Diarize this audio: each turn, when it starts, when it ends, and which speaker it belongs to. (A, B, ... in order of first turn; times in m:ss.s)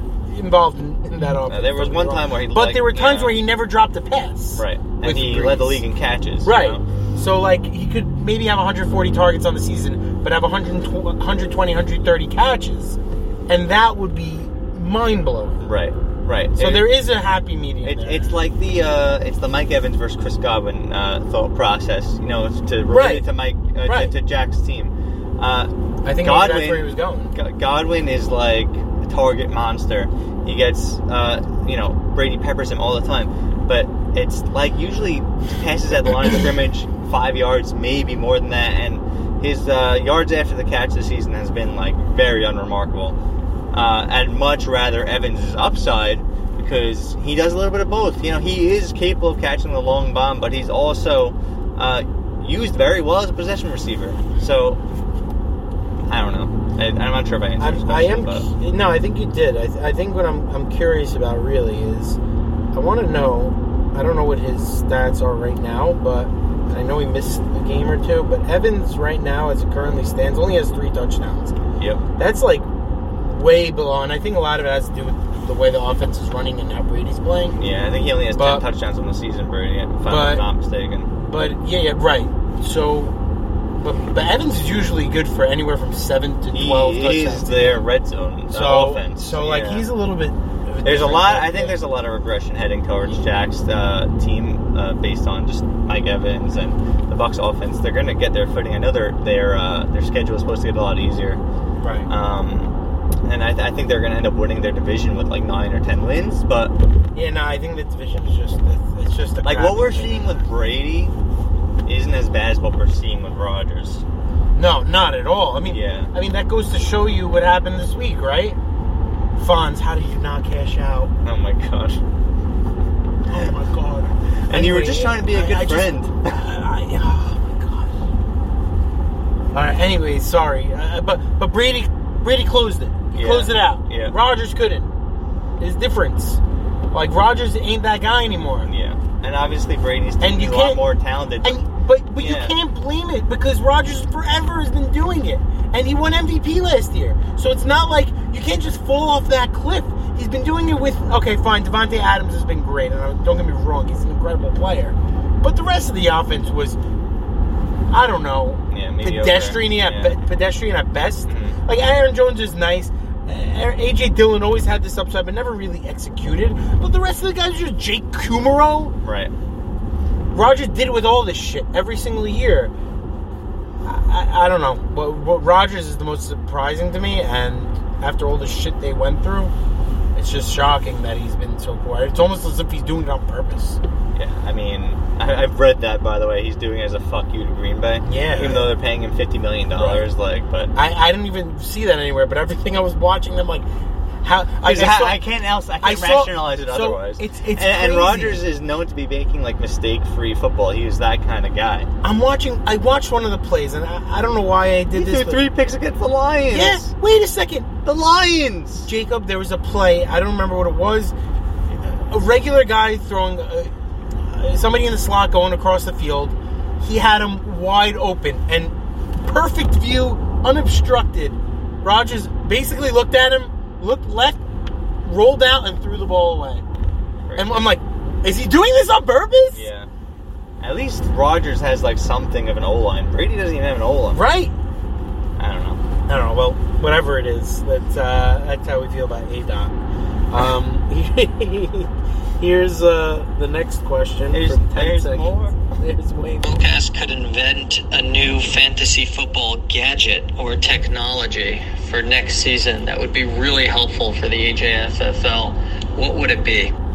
0:00.3-0:05.8 A
0:01.5-0:03.4 B
0:04.6-0:06.8 B
0:06.4-0:15.6 A
0:15.6-0:16.9 B
0:16.6-0:18.3 A
0:17.8-0:43.2 B
0:22.9-0:23.3 A
0:23.8-0:24.1 A
0:26.0-0:27.3 A
0:43.7-0:54.8 B
0:56.1-0:58.4 B
0:57.6-1:02.2 A
1:02.7-1:11.6 A
1:12.2-1:17.6 A
1:17.6-1:21.1 B
1:18.3-1:18.6 A
1:20.1-1:20.4 A
1:21.2-1:23.2 A
1:23.8-1:27.8 A
1:26.5-1:29.9 B
1:28.5-1:31.8 A
1:30.8-1:41.4 B
1:41.8-1:42.1 A
1:42.1-1:42.7 B
1:43.2-1:46.7 B
1:47.1-1:50.4 A
1:49.4-1:51.1 B
1:51.8-1:54.0 B
1:54.6-1:58.6 A
1:55.7-1:56.1 B
1:59.4-2:01.1 A
2:01.2-2:02.0 B
2:03.3-2:07.9 A
2:04.5-2:06.4 B
2:09.5-2:14.9 A
2:13.1-2:14.1 B
2:15.6-2:16.4 A
2:16.9-2:18.7 A
2:18.6-2:21.6 B
2:20.2-2:20.8 A
2:21.4-2:36.8 A
2:22.2-2:22.5 B
2:37.9-2:48.9 A
2:38.7-2:40.1 B
2:41.3-2:41.6 B
2:49.0-2:49.3 B
2:50.3-2:52.7 A
2:53.8-2:59.5 A
3:00.1-3:03.8 A
3:04.1-3:10.7 B
3:08.0-3:08.7 A
3:09.8-3:10.0 A
3:10.7-3:13.6 A
3:14.2-3:15.2 A
3:14.6-3:21.9 B
3:15.8-3:18.4 A
3:22.0-3:25.4 A
3:24.9-3:26.9 B
3:26.5-3:27.7 A
3:27.8-3:28.9 B
3:28.8-3:31.1 A
3:31.7-3:33.7 A
3:34.3-3:44.4 A
3:45.0-3:46.6 A
3:47.2-3:47.6 B
3:47.4-3:49.6 A
3:49.5-3:49.9 B
3:50.6-3:54.2 B
3:54.1-3:54.5 A
3:55.4-3:55.8 B
3:56.1-3:59.8 A
4:00.3-4:06.6 A
4:04.3-4:05.6 B
4:06.4-4:16.7 C